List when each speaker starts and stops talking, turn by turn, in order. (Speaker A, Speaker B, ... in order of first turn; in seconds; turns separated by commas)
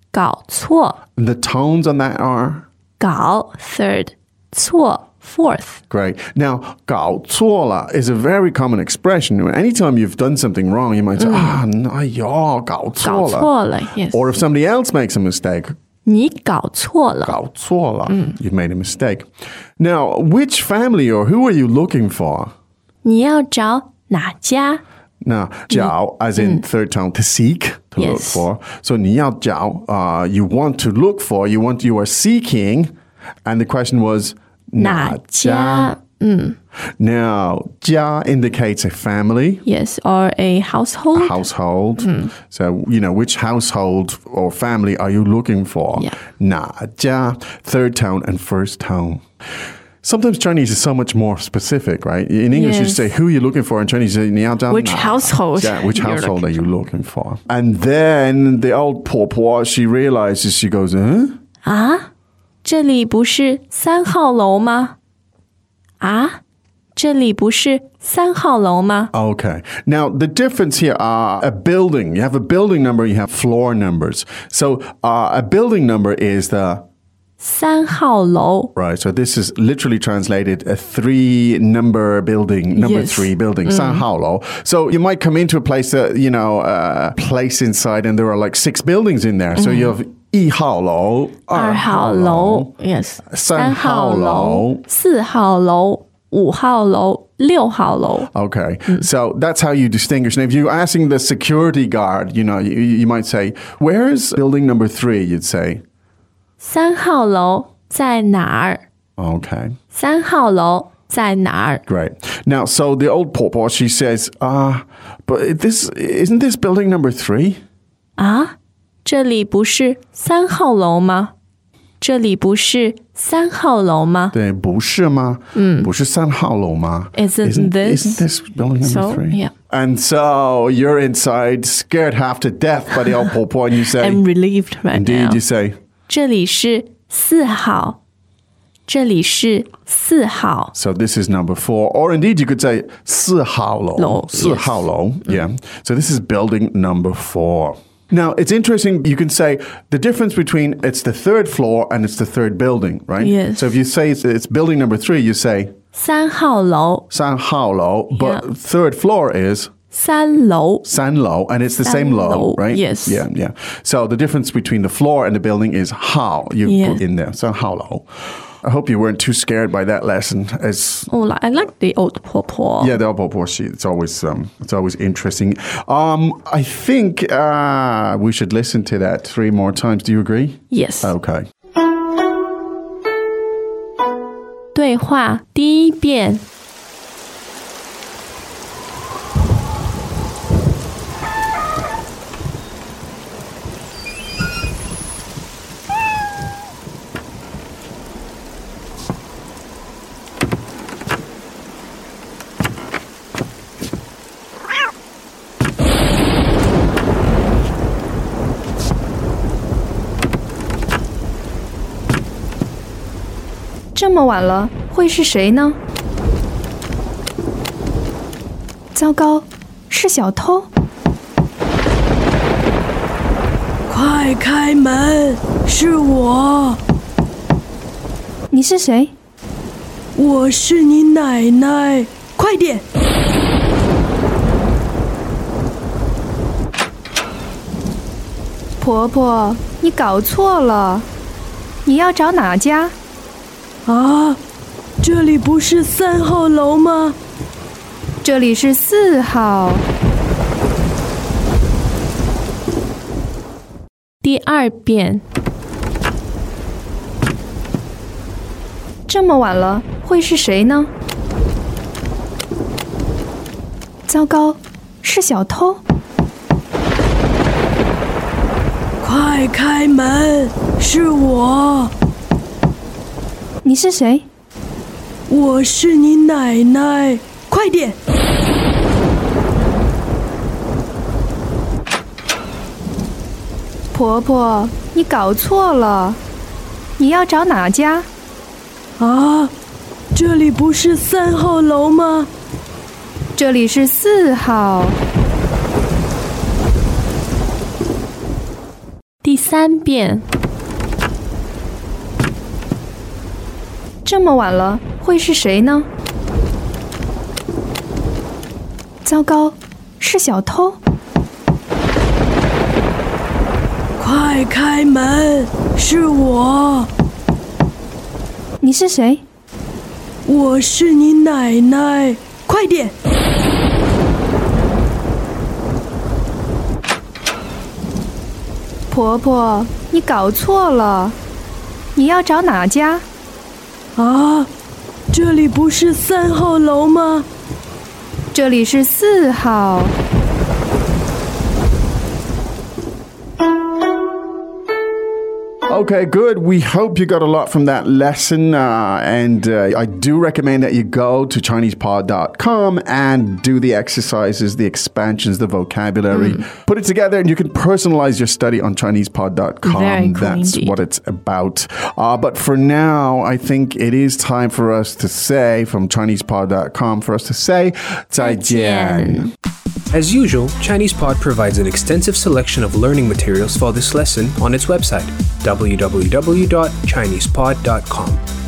Speaker A: 0.1-1.0, Speaker B: 1.2-2.6, Speaker A: 3.0-5.8, Speaker B: 5.9-13.5, Speaker A: 11.2-11.6, Speaker A: 13.0-14.3, Speaker B: 14.1-15.8, Speaker A: 16.1-17.4, Speaker B: 17.2-22.5, Speaker A: 18.1-18.4, Speaker A: 23.0-24.8, Speaker B: 25.2-32.9, Speaker A: 25.7-26.6, Speaker A: 28.0-28.4, Speaker B: 33.5-36.0, Speaker A: 34.8-36.6, Speaker B: 37.0-39.6, Speaker A: 39.6-41.5, Speaker B: 41.1-49.2, Speaker A: 42.0-42.3, Speaker B: 50.0-61.4, Speaker A: 52.5-53.1, Speaker A: 54.7-56.7, Speaker A: 61.6-62.1, Speaker A: 62.6-65.0, Speaker A: 66.0-66.4, Speaker A: 67.0-69.1, Speaker B: 69.1-76.8, Speaker A: 77.4-78.7, Speaker B: 78.8-92.7, Speaker A: 82.8-84.1, Speaker A: 89.6-90.0, Speaker A: 91.5-98.3, Speaker B: 93.3-94.8, Speaker B: 98.3-105.8, Speaker A: 106.6-108.8, Speaker B: 109.2-109.8, Speaker A: 109.9-111.8, Speaker B: 111.9-117.6, Speaker A: 118.2-121.3, Speaker A: 122.0-124.3, Speaker B: 124.3-134.2, Speaker A: 125.5-125.9, Speaker A: 127.1-128.2, Speaker A: 128.8-129.5, Speaker A: 133.9-135.4, Speaker B: 134.9-135.8, Speaker A: 136.1-138.0, Speaker A: 138.9-140.7, Speaker B: 140.7-155.7, Speaker A: 144.0-144.9, Speaker A: 153.2-153.8, Speaker A: 155.9-157.1, Speaker B: 157.1-159.7, Speaker A: 158.1-158.4, Speaker A: 159.9-160.9, Speaker B: 160.8-168.1, Speaker A: 161.8-163.3, Speaker A: 166.7-167.0, Speaker B: 168.6-171.1, Speaker A: 171.1-172.9, Speaker B: 172.8-181.5, Speaker A: 180.7-181.1, Speaker A: 184.7-186.5, Speaker C: 213.9-215.8, Speaker C: 218.9-220.7, Speaker D: 223.9-226.8, Speaker C: 228.5-229.1, Speaker D: 230.2-232.8, Speaker C: 238.8-241.1, Speaker C: 241.8-243.0, Speaker D: 243.9-244.4, Speaker D: 245.0-247.2, Speaker C: 248.2-249.8, Speaker A: 254.2-255.2, Speaker C: 259.1-260.9, Speaker C: 264.1-265.8, Speaker D: 269.0-271.9, Speaker C: 273.6-274.3, Speaker D: 275.3-278.0, Speaker C: 283.9-286.2, Speaker C: 287.0-288.1, Speaker D: 289.0-289.5, Speaker D: 290.1-292.3, Speaker C: 293.4-295.0, Speaker A: 299.2-300.2, Speaker C: 304.1-305.9, Speaker C: 309.1-310.8, Speaker D: 314.0-316.9, Speaker C: 318.6-319.2, Speaker D: 320.2-322.9, Speaker C: 328.9-331.2, Speaker C: 331.9-333.1, Speaker D: 334.0-334.5, Speaker D: 335.1-337.3, Speaker C: 338.3-339.9, Speaker B: 345.7-369.3, Speaker A: 356.1-356.4, Speaker A: 359.6-360.8, Speaker A: 368.2-369.3, Speaker E: 369.9-378.2